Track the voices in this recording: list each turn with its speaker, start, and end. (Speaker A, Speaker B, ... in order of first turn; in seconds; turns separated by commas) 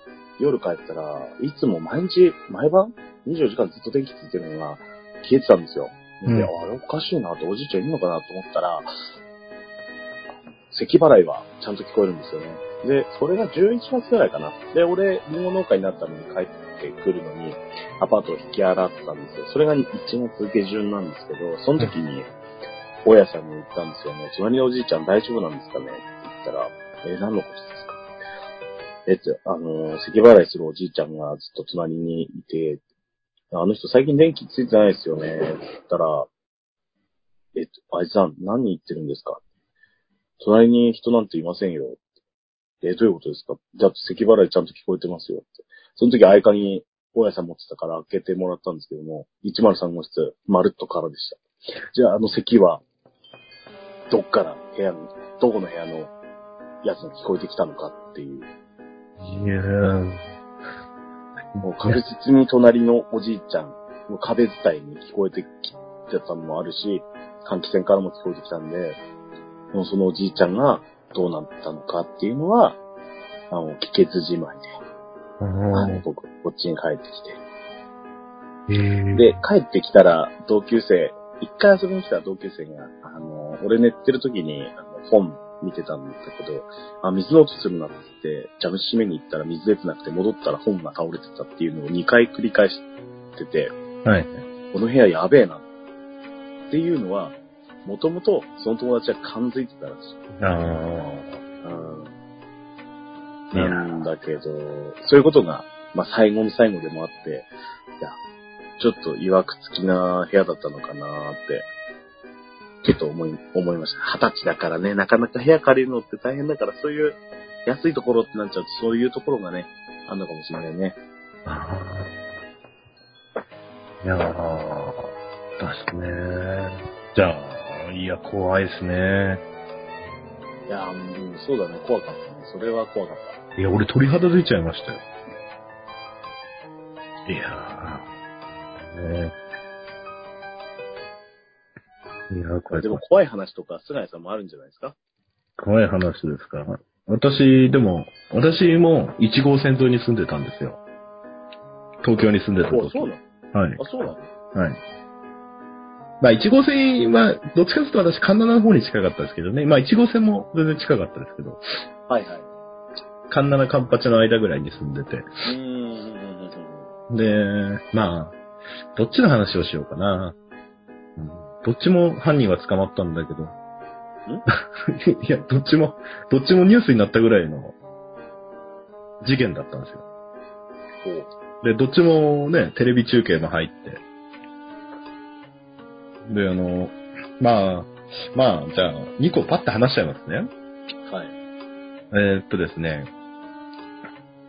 Speaker A: 0.4-8.9, Speaker A: 10.7-22.3, Speaker A: 23.0-28.0, Speaker A: 29.1-32.8, Speaker A: 33.5-36.3, Speaker A: 37.5-39.4, Speaker A: 40.4-42.0, Speaker A: 42.8-51.4, Speaker A: 51.9-52.8, Speaker A: 54.1-56.1, Speaker A: 56.8-58.5, Speaker B: 59.2-60.2, Speaker B: 61.5-62.0, Speaker A: 61.6-69.0, Speaker A: 69.7-72.8, Speaker A: 73.5-74.7, Speaker B: 75.4-76.0, Speaker A: 75.7-77.4, Speaker B: 78.7-79.4, Speaker A: 79.1-93.7, Speaker B: 94.0-94.4, Speaker A: 94.7-95.6, Speaker A: 96.7-100.2, Speaker B: 100.4-101.4, Speaker A: 101.6-102.1, Speaker B: 103.5-103.8, Speaker A: 103.5-108.2, Speaker A: 108.8-111.7, Speaker A: 112.8-121.0, Speaker B: 121.5-122.1, Speaker B: 124.0-129.4, Speaker A: 130.7-133.4, Speaker B: 133.6-135.0, Speaker B: 137.3-138.1, Speaker B: 138.9-139.3, Speaker B: 142.3-143.0, Speaker A: 142.7-144.9, Speaker B: 145.6-150.8, Speaker B: 152.0-153.8, Speaker A: 152.7-153.2, Speaker A: 153.8-154.3, Speaker B: 154.5-154.8, Speaker B: 156.2-161.6, Speaker A: 162.1-162.5, Speaker B: 163.3-165.3, Speaker A: 165.4-166.9, Speaker B: 167.1-168.4, Speaker B: 168.9-170.3, Speaker B: 171.2-173.5, Speaker B: 174.9-177.7, Speaker B: 179.2-180.0, Speaker A: 181.0-181.3, Speaker B: 181.6-184.0, Speaker B: 186.3-190.5, Speaker A: 191.1-191.3, Speaker B: 192.1-193.1